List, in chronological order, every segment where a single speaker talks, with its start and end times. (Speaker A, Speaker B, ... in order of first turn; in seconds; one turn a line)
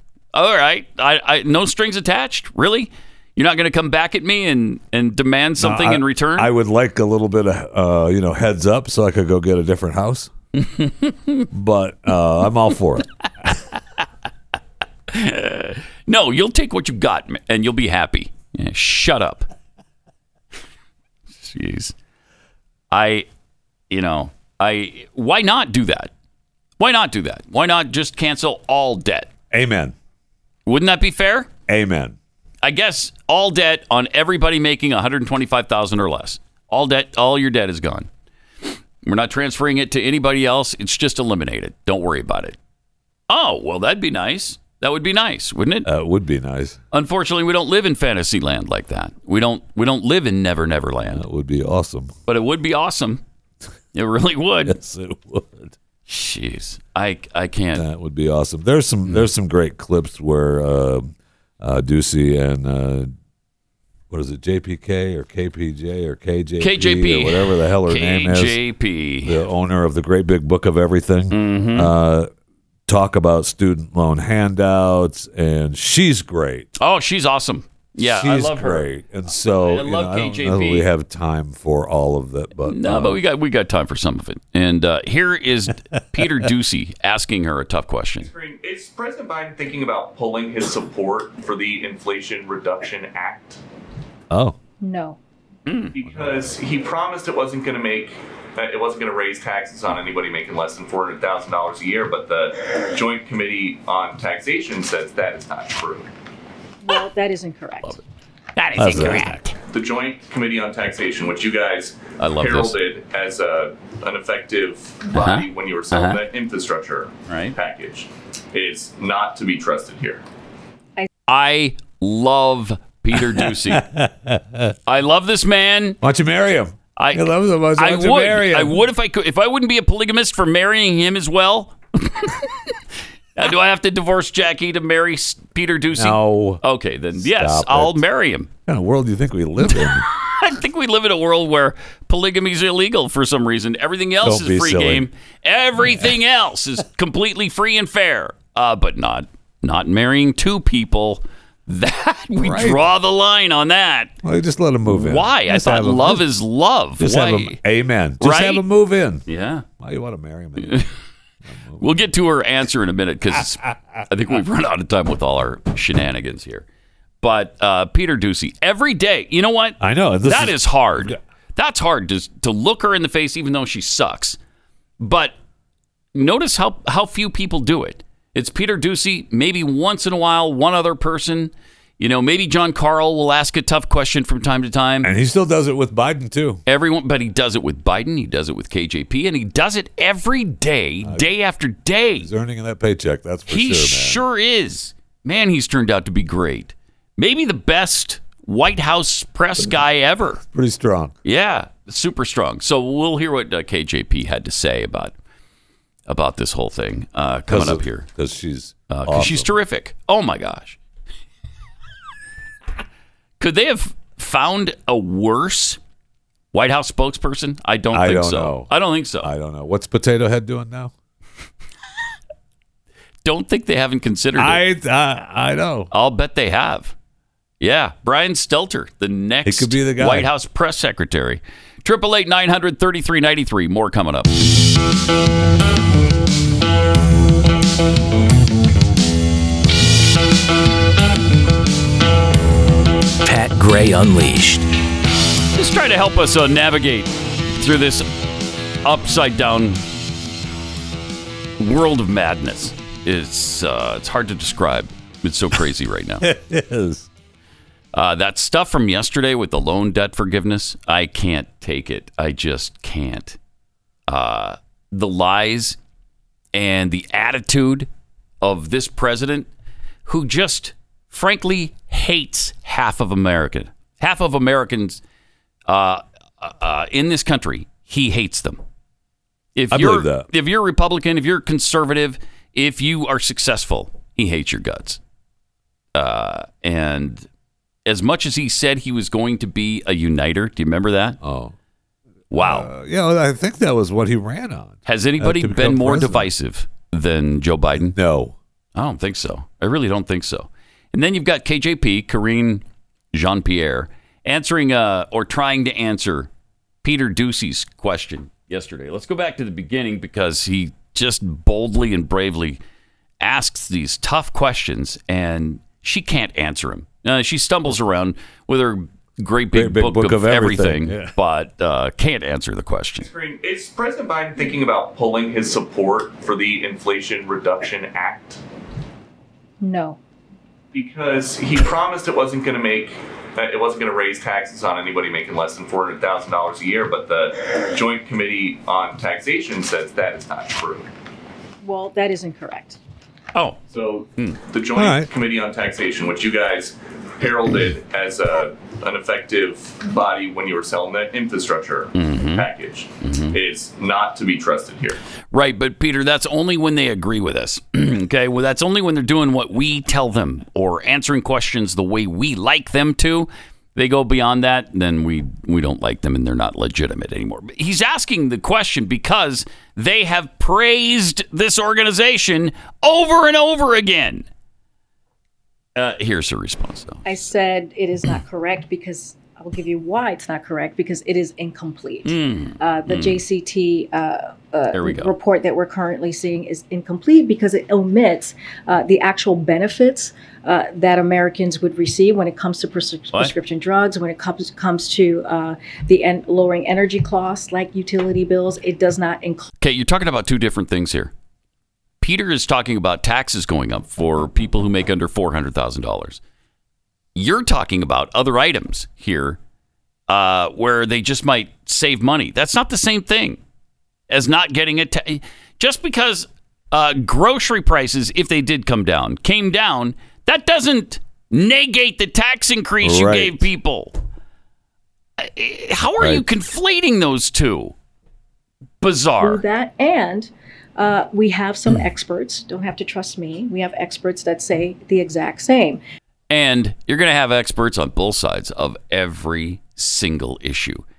Speaker A: 0.3-6.5
Speaker B: 5.6-10.3
Speaker A: 10.6-11.4
Speaker B: 11.5-13.5
Speaker A: 15.1-19.5
Speaker A: 21.4-21.9
Speaker A: 22.9-23.3
Speaker A: 23.9-26.1
Speaker A: 26.8-29.3
Speaker B: 29.5-29.9
Speaker A: 30.7-31.5
Speaker B: 31.7-32.2
Speaker A: 32.6-38.1
Speaker A: 39.0-42.6
Speaker A: 43.3-45.9
Speaker B: 45.9-46.8
Speaker A: 46.9-51.2
Speaker B: 51.1-52.1
Speaker A: 52.3-53.2
Speaker A: 53.9-54.8
Speaker B: 54.7-55.7
Speaker A: 56.1-57.9
Speaker B: 57.8-63.1
Speaker B: 64.1-68.6
Speaker A: 66.6-69.4
Speaker B: 69.2-72.3
Speaker A: 71.3-71.9
Speaker B: 72.9-76.7
Speaker A: 76.8-78.9
Speaker B: 78.0-83.2
Speaker A: 79.6-80.9
Speaker A: 82.7-88.3
Speaker B: 86.2-86.4
Speaker C: 88.2-93.6
Speaker B: 94.3-94.6
Speaker D: 94.8-95.2
Speaker A: 95.7-95.9
Speaker C: 96.0-106.1
Speaker B: 96.0-96.6
Speaker D: 106.8-108.0
Speaker A: 108.6-109.5
Speaker E: 108.6-109.5
Speaker B: 108.8-109.4
Speaker C: 109.7-120.2
Speaker A: 112.2-112.8
Speaker A: 115.1-116.2
Speaker A: 117.3-117.5
Speaker A: 121.3-123.8
Speaker B: 123.2-124.8
Speaker A: 124.9-126.0
Speaker B: 126.0-128.8
Speaker A: 127.0-132.5
Speaker A: 133.4-138.5
Speaker B: 135.9-136.6
Speaker B: 137.2-138.0
Speaker B: 138.7-140.1
Speaker A: 139.7-154.1
Speaker B: 144.2-145.1
Speaker B: 145.8-146.1
Speaker B: 152.4-152.8
Speaker B: 154.2-156.2
Speaker A: 154.9-157.6
Speaker B: 157.0-159.2
Speaker A: 158.2-158.6
Speaker A: 159.3-159.7
Speaker B: 159.8-160.8
Speaker A: 160.6-160.9
Speaker B: 161.5-162.0
Speaker A: 161.8-166.7
Speaker A: 167.2-174.4
Speaker B: 169.8-171.2
Speaker A: 175.0-175.4
Speaker A: 176.2-185.1
Speaker B: 185.0-186.6
Speaker A: 186.7-192.3
Speaker B: 192.2-194.2
Speaker A: 193.5-200.4
Speaker B: 200.4-201.2
Speaker A: 201.2-205.2
Speaker A: 206.1-208.1
Speaker B: 207.5-209.5
Speaker A: 208.9-210.8
Speaker A: 213.4-215.8
Speaker A: 216.5-219.3
Speaker B: 217.9-218.7
Speaker B: 219.2-220.9
Speaker A: 223.2-224.6
Speaker B: 224.4-225.9
Speaker A: 225.9-226.9
Speaker A: 227.6-234.3
Speaker B: 229.5-230.3
Speaker E: 243.2-244.7
Speaker A: 245.6-248.1
Speaker A: 248.8-249.8
Speaker A: 251.6-256.3
Speaker B: 256.2-257.1
Speaker A: 257.9-263.4
Speaker A: 264.1-265.8
Speaker A: 266.5-267.9
Speaker A: 268.4-269.5
Speaker A: 270.1-275.0
Speaker A: 275.7-278.6
Speaker A: 279.6-285.0
Speaker B: 279.7-280.3
Speaker A: 285.9-287.3
Speaker A: 287.9-291.2
Speaker B: 291.2-291.5
Speaker A: 292.3-292.7
Speaker B: 292.4-296.3
Speaker A: 294.9-298.0
Speaker B: 297.8-298.4
Speaker A: 298.8-306.3
Speaker A: 306.8-312.6
Speaker A: 313.2-323.1
Speaker B: 319.5-321.1
Speaker C: 323.0-328.4
Speaker D: 329.6-330.0
Speaker C: 330.7-340.9
Speaker D: 341.6-342.8
Speaker C: 343.7-355.0
Speaker B: 344.8-345.1
Speaker A: 351.9-352.5
Speaker A: 353.0-353.4
Speaker A: 355.3-374.3
Speaker A: 375.8-377.2
Speaker D: 377.1-399.5
Speaker A: 382.1-383.2
Speaker A: 384.7-385.1
Speaker A: 399.6-401.1
Speaker A: 402.0-406.2
Speaker A: 407.1-409.4
Speaker A: 410.1-413.4
Speaker A: 414.1-424.0
Speaker B: 422.8-423.5
Speaker A: 425.2-427.7
Speaker B: 426.0-426.2
Speaker A: 428.8-429.4
Speaker D: 429.2-435.8
Speaker A: 436.3-440.8